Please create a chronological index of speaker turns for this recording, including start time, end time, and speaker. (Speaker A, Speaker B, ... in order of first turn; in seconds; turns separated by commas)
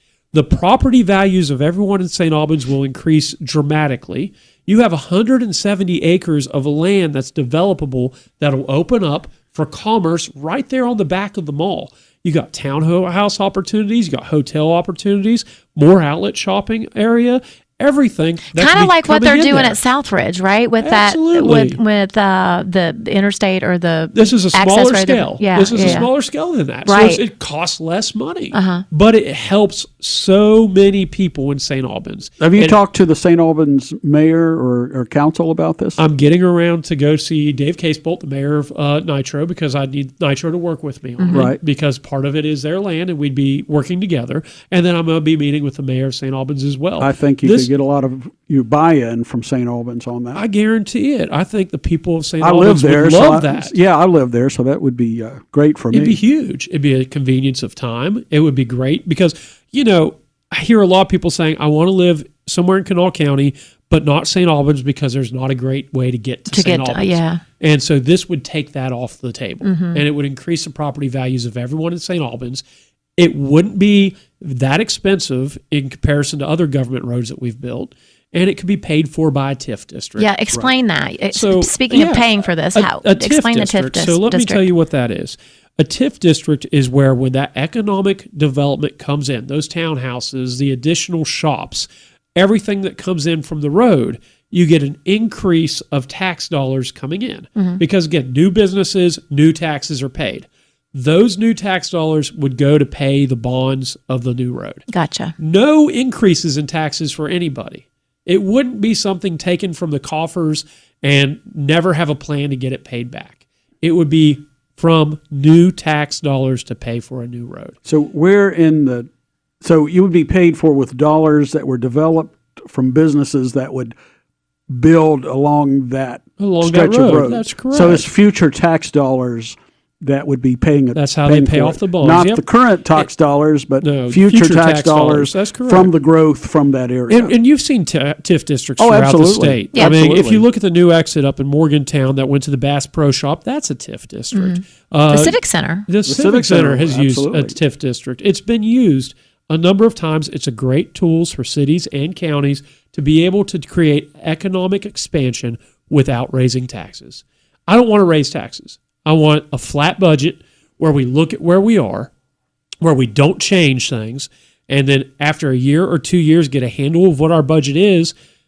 Speaker A: 0.3-19.8, Speaker B: 18.5-26.1, Speaker A: 20.8-21.8, Speaker A: 24.1-32.8, Speaker B: 26.9-27.2, Speaker B: 28.5-28.8, Speaker C: 32.4-36.0, Speaker A: 36.0-47.7, Speaker B: 41.2-41.5, Speaker C: 41.3-41.6, Speaker C: 47.0-50.4, Speaker A: 50.3-53.7, Speaker C: 52.4-56.2, Speaker A: 55.9-72.6, Speaker B: 66.5-67.4, Speaker B: 69.6-70.0, Speaker A: 73.2-80.3, Speaker B: 80.2-84.7, Speaker A: 81.3-104.8, Speaker B: 104.9-105.3, Speaker A: 105.4-117.8, Speaker C: 117.9-119.1, Speaker C: 119.6-124.0, Speaker C: 124.7-137.3, Speaker A: 126.4-128.1, Speaker A: 130.9-133.1, Speaker A: 133.8-135.9, Speaker A: 137.1-162.1, Speaker C: 138.8-140.5, Speaker B: 144.3-145.9, Speaker C: 146.1-147.6, Speaker A: 162.8-168.1